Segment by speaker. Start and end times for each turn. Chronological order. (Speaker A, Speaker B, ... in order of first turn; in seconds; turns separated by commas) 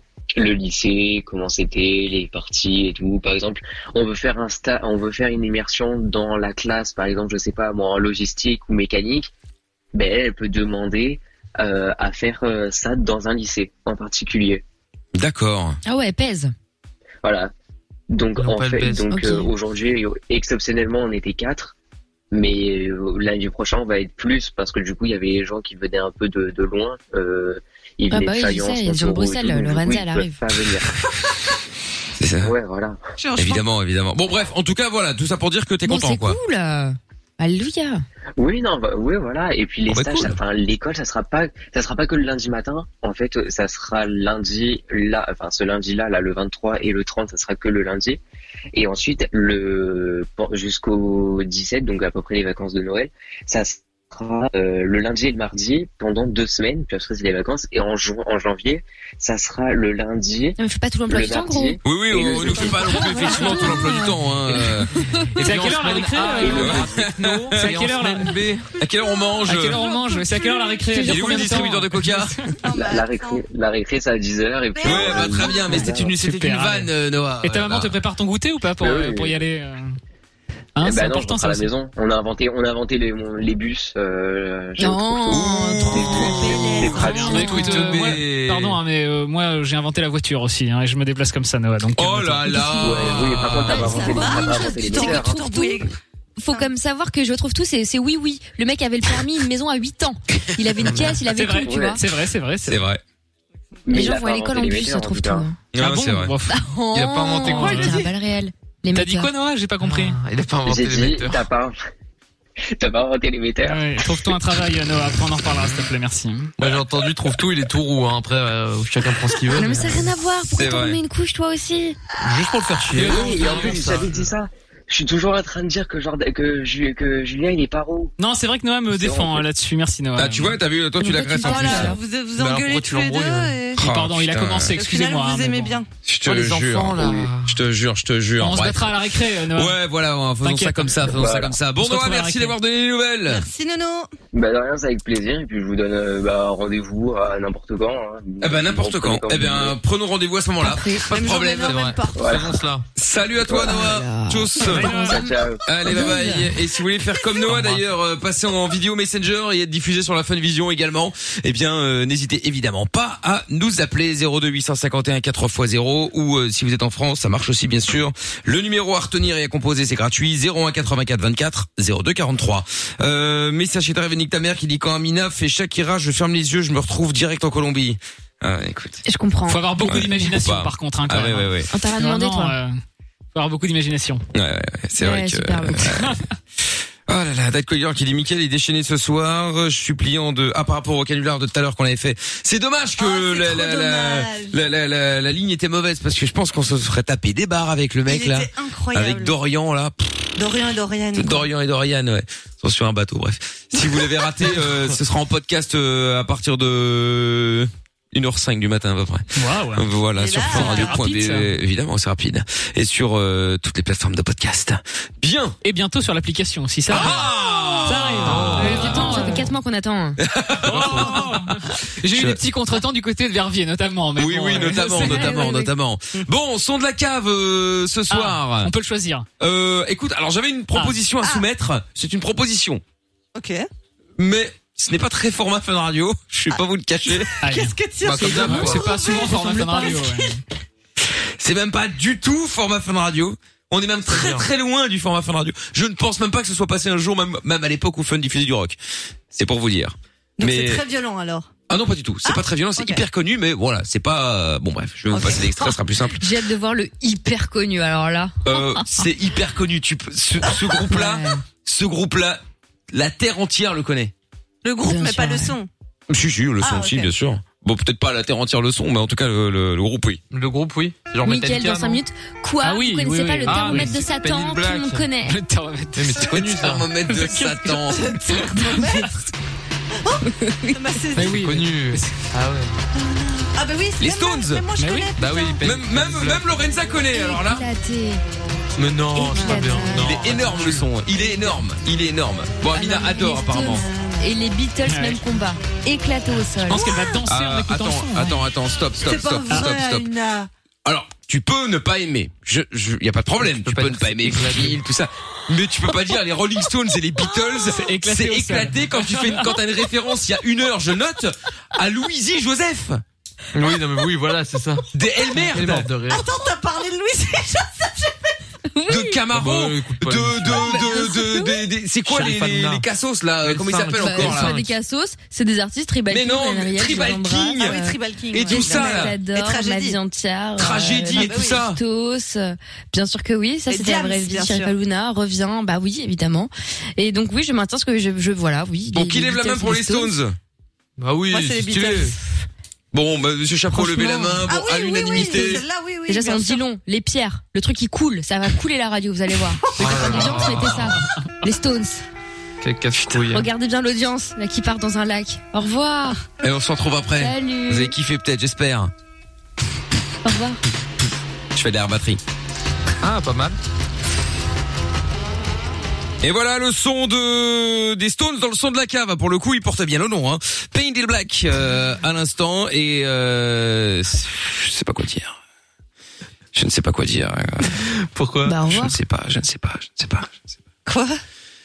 Speaker A: 0.4-9.3, Speaker A: 9.9-14.6, Speaker B: 15.2-15.8, Speaker C: 15.8-16.5, Speaker A: 17.2-17.5, Speaker A: 18.1-21.8, Speaker D: 18.4-19.2, Speaker C: 19.1-19.5, Speaker A: 22.3-30.9, Speaker C: 28.1-30.4, Speaker B: 32.2-32.5, Speaker A: 32.4-33.0, Speaker E: 33.2-33.7, Speaker B: 33.4-36.4, Speaker C: 35.9-38.0, Speaker A: 38.4-48.2, Speaker B: 39.9-40.4, Speaker A: 48.7-63.0, Speaker C: 60.6-61.8, Speaker B: 61.8-68.0, Speaker C: 62.4-64.2, Speaker F: 63.4-63.8, Speaker F: 65.4-68.6, Speaker D: 65.4-66.8, Speaker A: 66.4-67.1, Speaker D: 67.5-68.6, Speaker B: 68.8-69.8, Speaker F: 69.5-72.5, Speaker E: 69.6-70.8, Speaker C: 70.9-71.6, Speaker B: 71.0-72.3, Speaker E: 72.6-73.4, Speaker A: 72.7-76.1, Speaker E: 74.8-75.8, Speaker B: 74.8-77.9, Speaker F: 76.0-76.9, Speaker F: 77.4-80.0, Speaker A: 78.8-79.4, Speaker F: 80.8-81.7, Speaker A: 80.8-87.4, Speaker C: 84.8-87.7, Speaker B: 85.3-88.8, Speaker E: 86.2-87.4, Speaker F: 86.8-92.7, Speaker B: 92.0-94.1, Speaker C: 92.5-93.2, Speaker A: 92.8-95.3, Speaker E: 93.7-96.0, Speaker C: 93.8-95.8, Speaker C: 96.4-102.0, Speaker D: 100.8-101.2, Speaker F: 101.3-102.8, Speaker A: 101.6-102.0, Speaker B: 102.7-103.0, Speaker A: 103.9-105.5, Speaker C: 103.9-105.6, Speaker B: 105.7-106.3, Speaker F: 105.8-106.6, Speaker C: 106.5-109.3, Speaker D: 106.9-108.0, Speaker F: 107.3-108.0, Speaker F: 108.9-110.2, Speaker D: 109.8-111.5, Speaker A: 110.7-111.8, Speaker A: 112.8-114.3, Speaker F: 113.6-116.5, Speaker D: 116.6-120.1, Speaker C: 119.5-122.0, Speaker B: 120.5-121.0, Speaker D: 122.2-124.3, Speaker A: 122.9-128.1, Speaker F: 123.0-123.9, Speaker F: 128.2-130.6, Speaker A: 128.9-129.5, Speaker B: 130.2-132.0, Speaker C: 131.0-132.0, Speaker E: 131.4-133.8, Speaker D: 132.4-133.5, Speaker B: 133.8-134.8, Speaker F: 133.8-135.8, Speaker E: 134.8-135.9, Speaker B: 136.1-139.0, Speaker D: 136.3-137.6, Speaker A: 137.0-137.3, Speaker F: 138.4-139.8, Speaker B: 139.5-143.4, Speaker F: 140.4-141.2, Speaker A: 141.0-141.6, Speaker F: 141.8-142.6, Speaker E: 143.3-144.1, Speaker A: 144.3-149.8, Speaker B: 148.4-151.8, Speaker C: 150.6-151.1, Speaker E: 151.1-152.4, Speaker D: 151.6-152.8, Speaker A: 152.2-152.5, Speaker B: 153.0-154.9, Speaker A: 153.5-153.9, Speaker C: 153.6-155.2, Speaker F: 154.6-155.4, Speaker A: 154.7-155.6, Speaker B: 155.7-179.0, Speaker C: 155.9-156.5, Speaker D: 157.4-157.8, Speaker C: 179.1-180.3, Speaker F: 179.5-182.8, Speaker B: 179.8-181.7, Speaker C: 181.7-182.6, Speaker F: 183.3-184.2, Speaker B: 184.3-186.2, Speaker C: 185.0-186.0, Speaker F: 185.9-186.2, Speaker B: 187.1-200.2, Speaker E: 193.0-194.6, Speaker E: 198.1-199.4, Speaker E: 200.4-201.5, Speaker B: 201.1-215.6, Speaker F: 209.4-209.9, Speaker E: 210.2-211.0, Speaker F: 210.4-211.5, Speaker F: 215.6-219.5, Speaker B: 216.9-219.3, Speaker D: 218.3-218.9, Speaker C: 218.6-220.2, Speaker B: 220.2-221.5, Speaker F: 220.6-225.4, Speaker E: 220.9-221.2, Speaker B: 222.1-222.4, Speaker B: 224.2-228.7, Speaker C: 224.6-225.7, Speaker F: 228.1-229.3, Speaker B: 229.4-232.8, Speaker E: 233.3-233.7, Speaker B: 234.2-237.4, Speaker E: 237.2-240.3, Speaker F: 237.4-240.4, Speaker B: 238.0-239.0, Speaker B: 241.4-248.8, Speaker D: 244.1-244.5, Speaker B: 249.3-250.8, Speaker E: 250.4-251.5, Speaker B: 251.7-256.2, Speaker E: 252.2-253.1, Speaker C: 255.1-259.0, Speaker B: 258.4-264.1, Speaker C: 260.9-261.4, Speaker E: 264.6-265.7, Speaker C: 264.9-265.6, Speaker B: 266.1-270.2, Speaker E: 266.6-267.1, Speaker D: 270.3-272.0, Speaker C: 271.2-275.4, Speaker F: 272.6-274.0, Speaker D: 273.5-275.1, Speaker F: 275.3-276.3, Speaker D: 276.0-276.9, Speaker B: 276.2-278.2, Speaker F: 277.1-278.8, Speaker E: 278.3-279.2, Speaker C: 278.4-278.9, Speaker E: 280.0-281.4, Speaker C: 280.3-280.8, Speaker F: 281.1-282.3, Speaker D: 281.2-282.7, Speaker E: 283.0-285.6, Speaker B: 284.0-284.7, Speaker F: 284.8-285.1, Speaker D: 285.2-286.5, Speaker B: 285.6-287.7, Speaker C: 287.1-288.2, Speaker D: 288.8-290.9, Speaker C: 289.1-290.5, Speaker E: 289.4-289.7, Speaker B: 289.9-293.9, Speaker C: 292.7-296.8, Speaker E: 293.6-294.3, Speaker F: 294.9-295.2, Speaker F: 296.7-298.4, Speaker E: 296.7-297.2, Speaker B: 297.2-300.1, Speaker E: 299.0-300.5, Speaker B: 300.9-313.0, Speaker D: 303.4-304.8, Speaker E: 307.3-307.6, Speaker F: 307.6-309.5, Speaker D: 313.5-316.3, Speaker B: 314.9-315.9, Speaker E: 316.1-318.4, Speaker C: 318.7-319.2, Speaker B: 318.9-324.6, Speaker D: 319.3-320.9, Speaker C: 320.6-321.6, Speaker D: 322.1-322.9, Speaker D: 323.4-324.7, Speaker C: 324.0-328.0, Speaker B: 326.1-327.8, Speaker E: 327.6-330.0, Speaker B: 328.3-329.1, Speaker C: 328.5-340.1, Speaker B: 330.6-331.8, Speaker E: 331.1-331.6, Speaker E: 333.7-334.8, Speaker B: 338.9-340.4, Speaker D: 341.0-342.1, Speaker E: 341.3-342.1, Speaker B: 341.4-342.1, Speaker B: 342.9-345.6, Speaker C: 343.7-344.4, Speaker E: 344.4-346.6, Speaker C: 346.1-352.0, Speaker D: 349.8-351.0, Speaker D: 352.6-353.5, Speaker C: 353.3-356.2, Speaker B: 356.4-358.9, Speaker C: 357.2-357.9, Speaker C: 360.2-360.6, Speaker B: 361.5-362.2, Speaker D: 363.0-363.6, Speaker B: 366.2-375.4, Speaker B: 376.5-377.9, Speaker D: 378.1-378.6, Speaker C: 378.4-379.0, Speaker B: 378.7-380.6, Speaker E: 380.9-381.2